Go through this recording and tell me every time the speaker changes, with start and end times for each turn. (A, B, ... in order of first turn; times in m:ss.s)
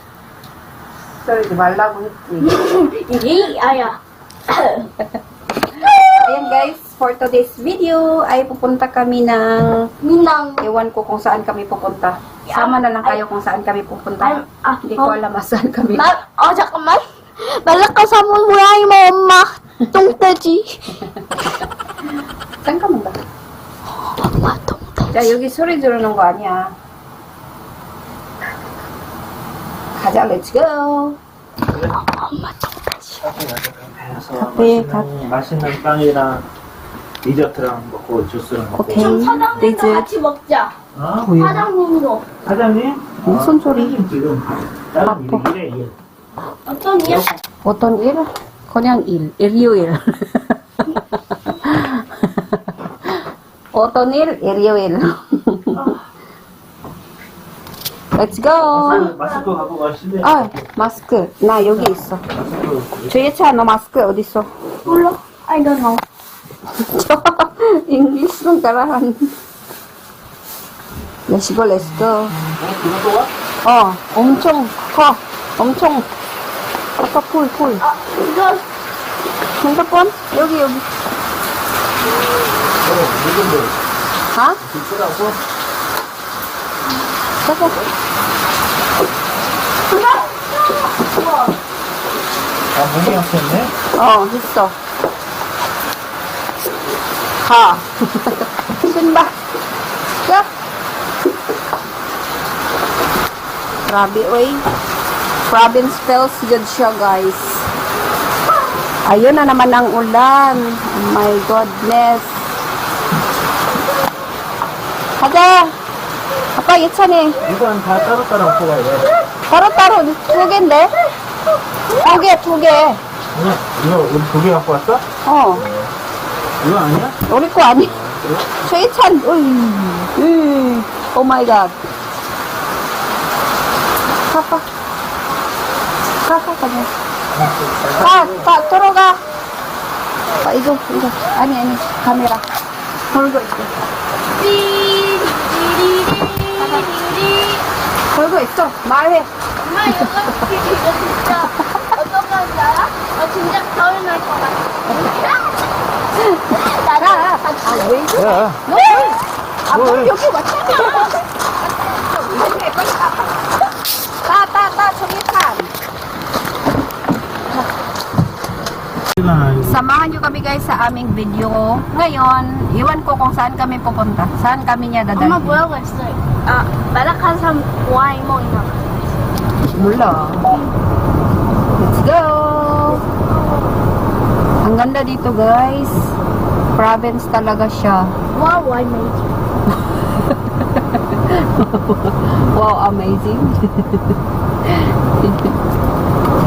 0:01.2-0:02.6 A
0:02.4-0:04.9 B
0:05.8-0:06.2 B
0:06.1-0:09.9 A
0:10.0-0:10.6 B
0:10.6-0:16.1 A
0:12.5-0:13.2 B
0:14.2-0:15.2 B
0:15.9-0:20.8 B
0:22.6-0:23.2 A
0:24.2-0:25.3 B
0:25.1-0:26.7 A
0:30.0-0:31.2 A
0:31.7-0:32.0 C
0:32.0-0:32.8 B
0:33.2-0:36.4 C
0:34.4-0:35.1 A
0:37.2-0:39.2 C
0:38.7-0:40.1 A
0:38.9-0:40.7 B
0:40.9-0:41.4 C
0:41.2-0:41.6 A
0:41.4-0:42.2 B
0:42.4-0:45.9 C
0:43.2-0:44.0 A
0:45.0-0:45.4 A
0:46.6-0:47.4 B
0:47.6-0:52.6 A
0:53.7-0:55.8 A
0:58.1-0:59.1 A
0:58.6-1:00.7 C
1:00.2-1:02.2 A
1:02.3-1:03.3 C
1:03.1-1:04.5 A
1:04.8-1:06.0 B
1:06.8-1:09.3 A
1:11.3-1:12.4 A
1:12.6-1:13.3 C
1:13.6-1:16.1 A
1:17.0-1:17.8 A
1:17.8-1:18.6 B
1:19.6-1:20.8 A
1:22.8-1:23.7 C
1:24.3-1:24.6 A
1:24.6-1:25.4 C
1:27.4-1:27.8 A
1:29.9-1:30.2 A
1:32.7-1:33.7 C
1:33.9-1:34.7 A
1:37.4-1:39.3 A
1:43.9-1:44.6 A
1:45.5-1:47.7 A
1:49.0-1:52.4 A
1:55.2-1:55.7 A
1:56.6-1:57.4 A
1:57.4-1:59.1 C
1:59.5-2:00.9 A
2:02.0-2:03.0 A
2:03.3-2:05.0 C
2:05.2-2:05.7 A
2:06.6-2:07.2 C
2:07.3-2:08.0 A
2:08.1-2:08.5 C
2:08.5-2:11.8 A
2:14.2-2:14.6 A
2:16.2-2:16.9 A
2:17.3-2:18.5 C
2:18.0-2:19.2 A
2:20.4-2:22.4 A
2:23.1-2:23.7 A
2:24.4-2:27.6 B
2:26.6-2:26.9 A
2:28.1-2:29.3 A
2:29.6-2:35.5 B
2:29.9-2:30.3 A
2:31.6-2:31.9 A
2:36.3-2:38.0 B
2:37.0-2:39.2 A
2:38.1-2:38.6 C
2:38.7-2:39.2 B
2:39.7-2:41.2 A
2:39.7-2:40.1 C
2:40.6-2:41.2 B
2:41.9-2:43.3 A
2:44.2-2:45.7 A
2:49.2-2:49.8 C
2:49.6-2:55.6 A
2:55.2-2:59.0 B
2:59.7-3:00.5 A
3:01.7-3:03.0 A
3:02.9-3:03.6 B
3:04.6-3:06.1 A
3:06.7-3:08.1 A
3:08.3-3:09.2 B
3:09.8-3:14.1 A
3:14.7-3:15.5 A